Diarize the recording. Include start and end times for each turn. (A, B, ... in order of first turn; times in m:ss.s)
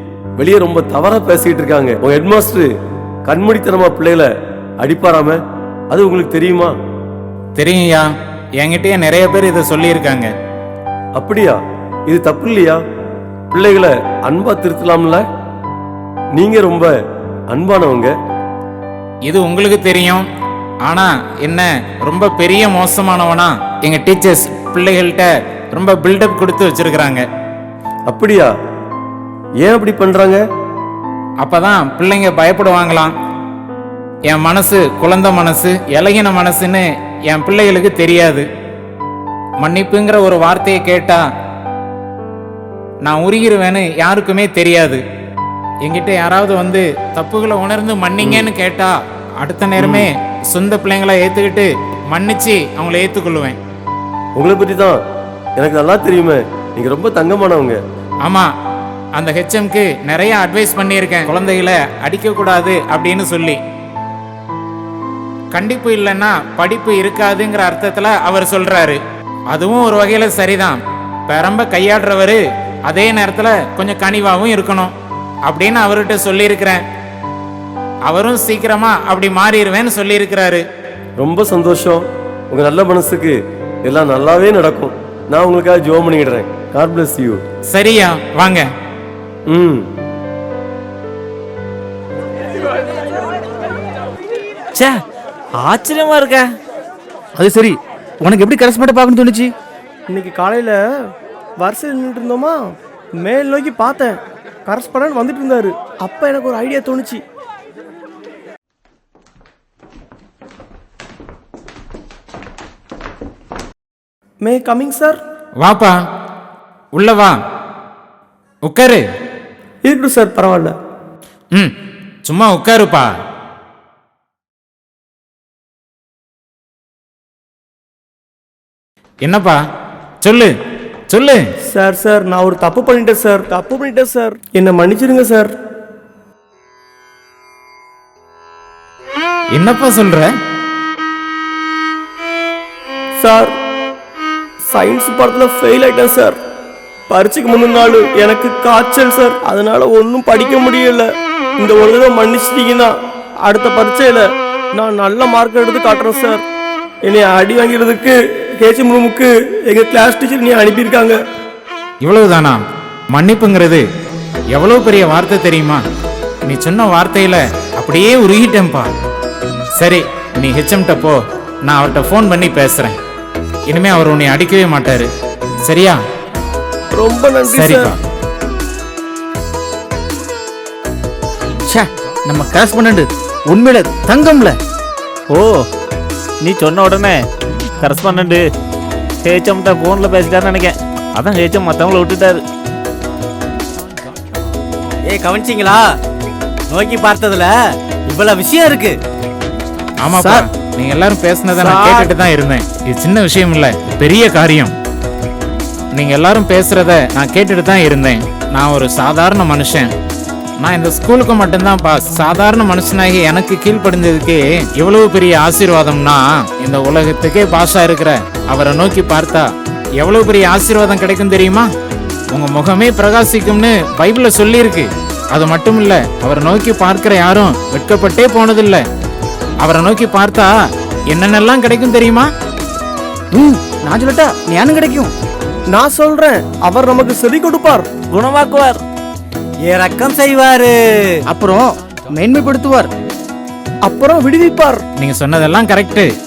0:00.4-0:02.7 A
0:03.3-0:04.3 A
0:04.8-0:05.4 A
0:05.9-0:06.7 A
0:07.6-0:08.1 B
0:08.6-0:10.3 B
0:11.2-0:11.6 A
0:12.1-0:12.8 A
0:13.5-0:15.2 A
0:16.4-0:16.9 A
0:17.5-0:18.1 A
0:19.3-0:20.3 B
0:20.9-0:27.2 B
0:28.1-0:28.5 A
0:29.6-0:30.4 A
0:31.4-0:33.1 B
0:34.3-0:38.5 B
0:39.6-0:41.2 B
0:43.0-0:45.0 B
0:45.8-0:53.6 B
0:48.2-0:48.5 A
0:49.8-0:50.1 A
0:54.4-0:55.0 A
0:55.6-0:57.8 A
0:59.2-1:03.6 B
1:05.5-1:09.0 B
1:09.5-1:10.8 B
1:11.3-1:14.9 B
1:15.5-1:16.8 B
1:18.1-1:20.6 B
1:21.2-1:27.4 A
1:27.7-1:28.7 B
1:29.5-1:29.8 A
1:34.7-1:35.0 C
1:35.6-1:36.5 C
1:37.4-1:39.5 D
1:40.1-1:40.8 E
1:41.6-1:42.6 E
1:43.2-1:44.1 E
1:44.7-1:47.2 E
1:54.4-1:55.2 E
1:55.6-1:56.0 B
1:57.0-1:57.4 B
1:58.7-1:59.0 B
1:59.8-2:00.7 E
2:02.3-2:03.1 B
2:09.2-2:09.6 B
2:10.2-2:10.5 B
2:11.1-2:11.4 B
2:11.7-2:15.5 E
2:19.5-2:20.3 B
2:23.2-2:23.5 E
2:24.7-2:26.4 E
2:27.1-2:31.1 E
2:31.6-2:32.9 E
2:33.5-2:36.4 E
2:37.1-2:41.2 E
2:42.0-2:42.6 B
2:43.1-2:43.8 B
2:44.5-2:45.8 B
2:46.5-2:48.9 B
2:49.8-2:53.0 B
2:53.7-2:55.1 B
2:55.7-2:56.0 B
2:56.9-2:57.8 E
2:57.5-2:58.0 B
3:01.7-3:04.6 D
3:06.4-3:07.2 C
3:07.8-3:08.4 C
3:09.2-3:12.4 C
3:15.1-3:15.9 F
3:16.7-3:17.6 F
3:18.1-3:19.0 F
3:20.0-3:24.7 B
3:20.2-3:20.5 D
3:21.7-3:22.1 C
3:26.0-3:29.9 B
3:30.6-3:41.7 B
3:42.3-3:48.8 B
3:49.6-3:50.5 B
3:51.1-3:52.3 B
3:53.3-3:55.1 D
3:55.8-3:57.9 E
3:58.1-3:58.8 C
3:59.7-4:01.1 F
4:01.3-4:02.9 D
4:03.9-4:04.8 E
4:05.0-4:06.1 B